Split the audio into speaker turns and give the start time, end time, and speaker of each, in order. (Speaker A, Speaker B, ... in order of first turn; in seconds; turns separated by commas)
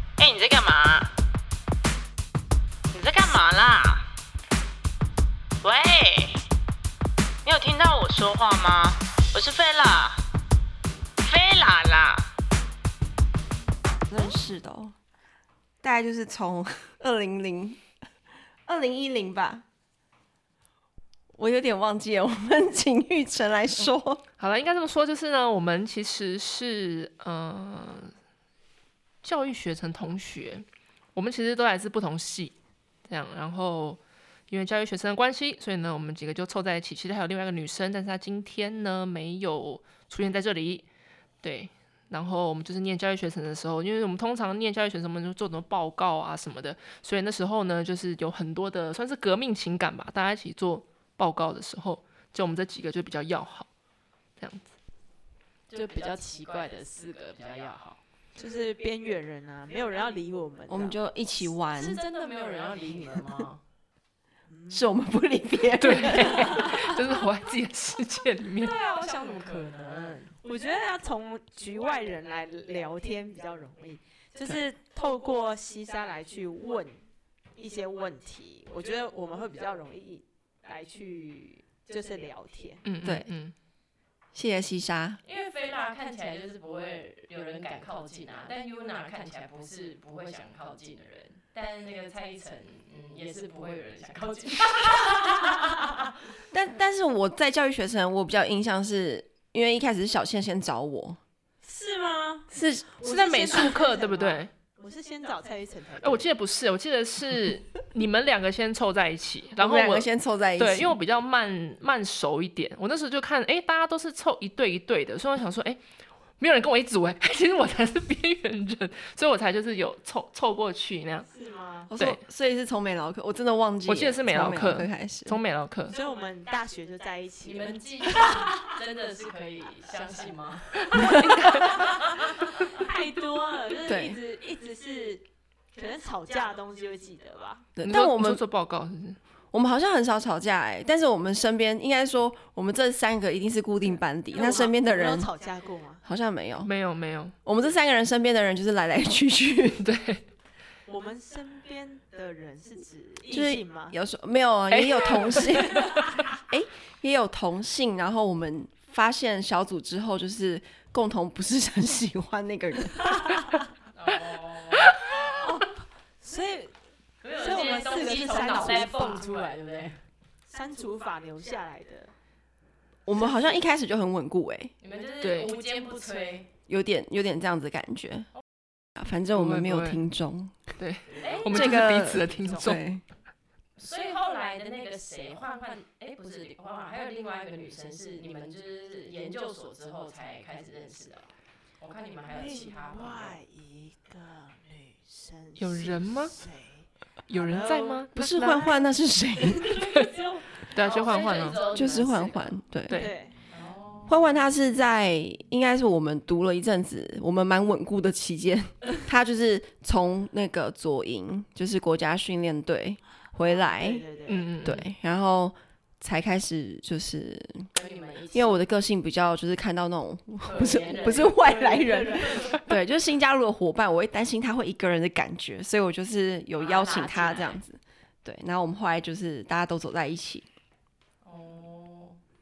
Speaker A: 0.2-1.1, Speaker A: 2.9-4.1, Speaker A: 5.6-6.4, Speaker A: 7.5-10.2, Speaker A: 11.2-12.3, Speaker B: 14.1-15.0, Speaker B: 15.8-17.8, Speaker B: 18.6-19.6, Speaker B: 21.3-24.2, Speaker C: 24.4-28.1, Speaker C: 29.2-32.5, Speaker C: 33.1-40.9, Speaker C: 41.4-53.7, Speaker C: 54.4-54.7, Speaker D: 55.7-58.0, Speaker E: 58.4-61.0, Speaker B: 60.7-62.0, Speaker D: 61.7-63.6, Speaker E: 64.5-64.8, Speaker B: 64.7-66.9, Speaker C: 65.8-68.8, Speaker D: 68.6-70.3, Speaker E: 70.4-82.8, Speaker C: 82.8-83.5, Speaker B: 83.0-83.3, Speaker B: 84.3-85.2, Speaker D: 85.2-95.8, Speaker B: 96.5-101.2, Speaker E: 101.6-106.2, Speaker B: 102.5-102.9, Speaker C: 103.0-104.5, Speaker C: 106.0-115.8, Speaker B: 109.6-111.0, Speaker C: 116.4-121.3, Speaker E: 121.3-121.9, Speaker B: 121.9-125.4, Speaker C: 123.9-126.0, Speaker E: 125.9-128.6, Speaker D: 127.5-132.5, Speaker B: 130.9-131.5, Speaker C: 130.9-131.7, Speaker E: 131.9-137.7, Speaker B: 133.9-134.2, Speaker B: 137.8-138.4, Speaker C: 137.8-139.2, Speaker B: 139.5-145.3, Speaker E: 144.3-146.0, Speaker B: 146.0-146.7, Speaker C: 146.6-147.3, Speaker B: 147.4-149.9, Speaker C: 149.8-150.2, Speaker E: 150.9-154.0, Speaker B: 153.3-163.4, Speaker C: 154.7-156.0, Speaker E: 155.6-156.2, Speaker D: 163.9-164.9, Speaker E: 165.3-166.8, Speaker D: 167.2-170.0, Speaker E: 167.4-169.2, Speaker E: 170.5-172.1, Speaker B: 173.1-174.7, Speaker D: 174.8-176.5, Speaker C: 175.2-175.5, Speaker B: 176.7-178.3, Speaker B: 179.0-180.6, Speaker C: 179.3-180.0, Speaker C: 180.8-182.8, Speaker D: 181.2-182.7, Speaker B: 181.5-183.0, Speaker D: 183.8-193.4, Speaker E: 192.3-198.8, Speaker C: 195.6-196.4, Speaker C: 197.3-198.6, Speaker B: 198.2-199.8, Speaker E: 199.4-201.6, Speaker C: 200.7-201.6, Speaker D: 200.8-202.5, Speaker B: 201.7-203.0, Speaker E: 202.9-203.3, Speaker D: 203.5-204.2, Speaker B: 204.1-214.1, Speaker E: 213.4-214.5, Speaker C: 214.3-214.8, Speaker B: 214.6-217.7, Speaker D: 217.7-218.6, Speaker B: 218.3-230.5, Speaker D: 220.4-221.7, Speaker E: 221.2-222.6, Speaker D: 226.6-227.6, Speaker D: 231.2-232.2